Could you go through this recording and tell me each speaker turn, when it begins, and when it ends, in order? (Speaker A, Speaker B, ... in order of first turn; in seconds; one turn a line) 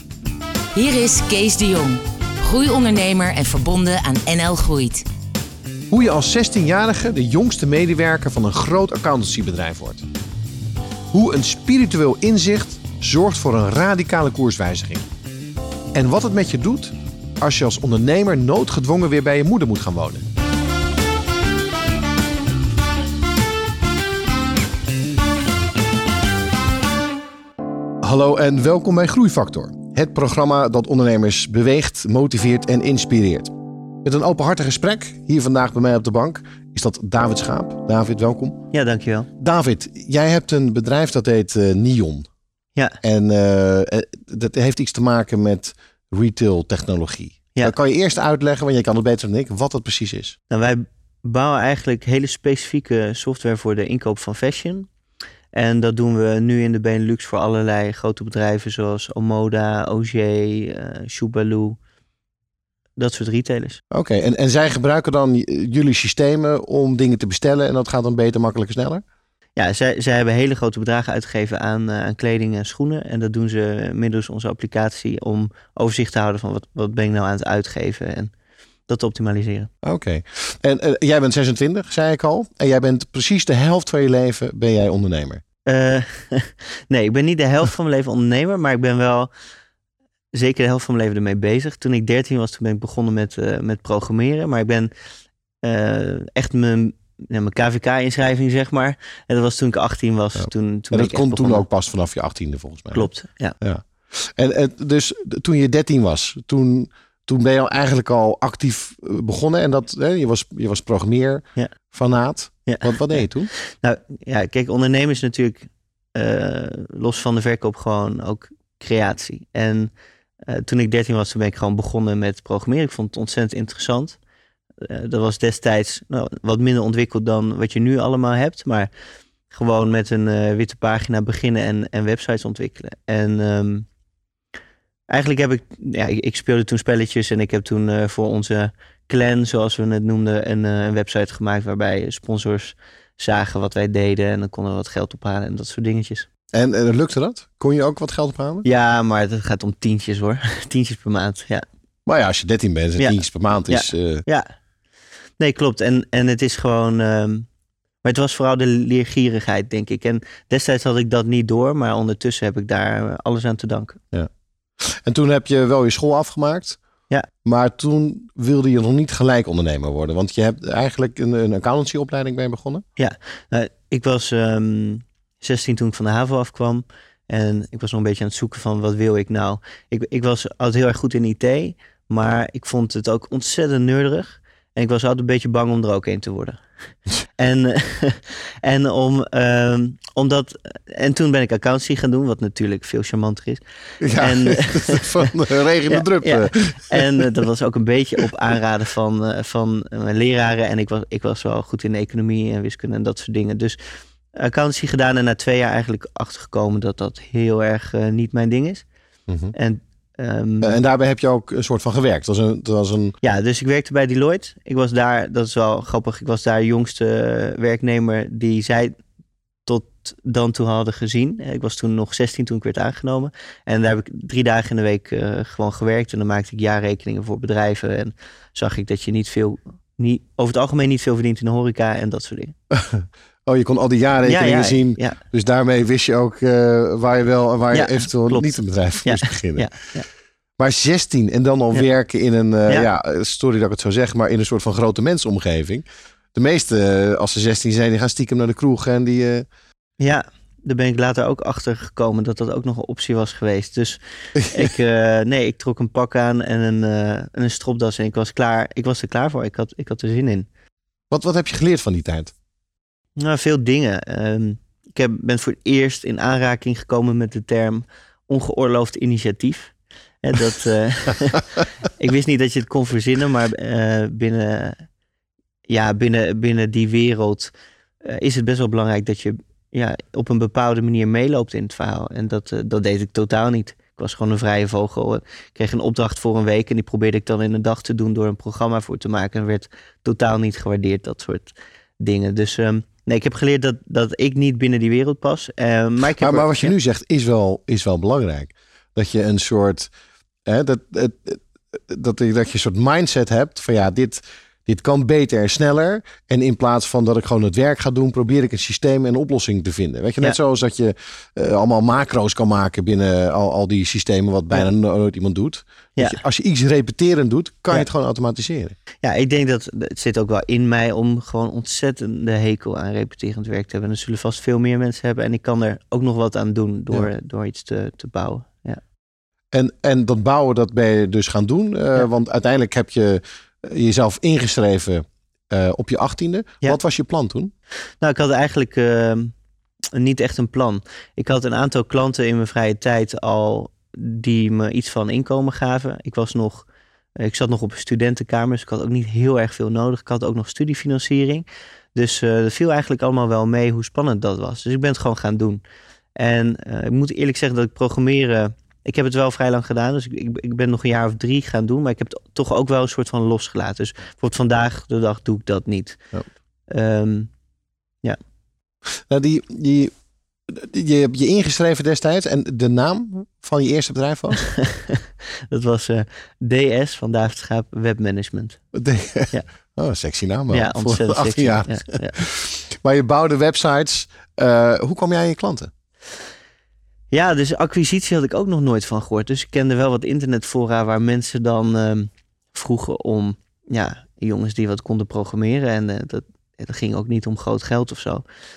Speaker A: 0.7-5.0
Speaker B: 5.9-10.1
Speaker B: 11.1-15.1
Speaker B: 15.9-20.3
Speaker B: 28.0-33.5
Speaker B: 34.0-38.7
Speaker C: 38.7-39.3
Speaker B: 39.4-42.3
Speaker B: 43.0-50.4
Speaker C: 50.5-54.9
Speaker C: 55.5-61.8
Speaker C: 63.0-63.8
Speaker B: 63.9-69.0
Speaker C: 69.6-78.3
Speaker C: 78.9-79.7
Speaker B: 79.8-85.4
Speaker C: 85.7-89.3
Speaker C: 90.3-94.9
Speaker C: 95.6-101.7
Speaker B: 100.4-103.1
Speaker C: 102.9-103.6
Speaker B: 103.6-113.5
Speaker C: 112.7-119.9
Speaker C: 120.5-124.2
Speaker C: 124.8-128.9
Speaker C: 129.5-133.9
Speaker C: 135.1-146.3
Speaker B: 146.5-148.7
Speaker C: 148.6-151.7
Speaker B: 152.1-154.2
Speaker C: 153.0-154.5
Speaker C: 155.4-157.5
Speaker C: 158.0-164.0
Speaker B: 164.8-166.8
Speaker B: 167.4-172.8
Speaker C: 173.0-186.6
Speaker C: 187.4-195.3
Speaker B: 194.0-197.3
Speaker C: 195.9-203.8
Speaker C: 204.4-208.8
Speaker B: 209.3-209.5
Speaker C: 209.5-210.8
Speaker B: 210.6-213.2
Speaker C: 213.2-218.9
Speaker C: 219.7-232.5
Speaker B: 232.7-239.8
Speaker C: 234.2-235.2
Speaker C: 237.7-240.1
Speaker B: 240.6-249.5
Speaker C: 250.0-260.5
Speaker B: 254.4-254.7
Speaker B: 261.1-262.3
Speaker C: 263.2-274.8
Speaker C: 275.7-277.5
Speaker C: 278.0-296.7
Speaker B: 296.2-299.9
Speaker B: 300.5-318.8
Speaker C: 319.0-328.8
Speaker B: 329.5-337.5
Speaker C: 338.0-339.3
Speaker C: 339.9-346.7
Speaker C: 347.2-355.6
Speaker C: 356.2-366.0
Speaker C: 366.7-367.3
Speaker B: 368.9-369.9
Speaker B: 370.5-374.4
Speaker C: 374.4-378.6
Speaker B: 378.7-385.7
Speaker C: 380.5-382.2
Speaker C: 387.1-398.2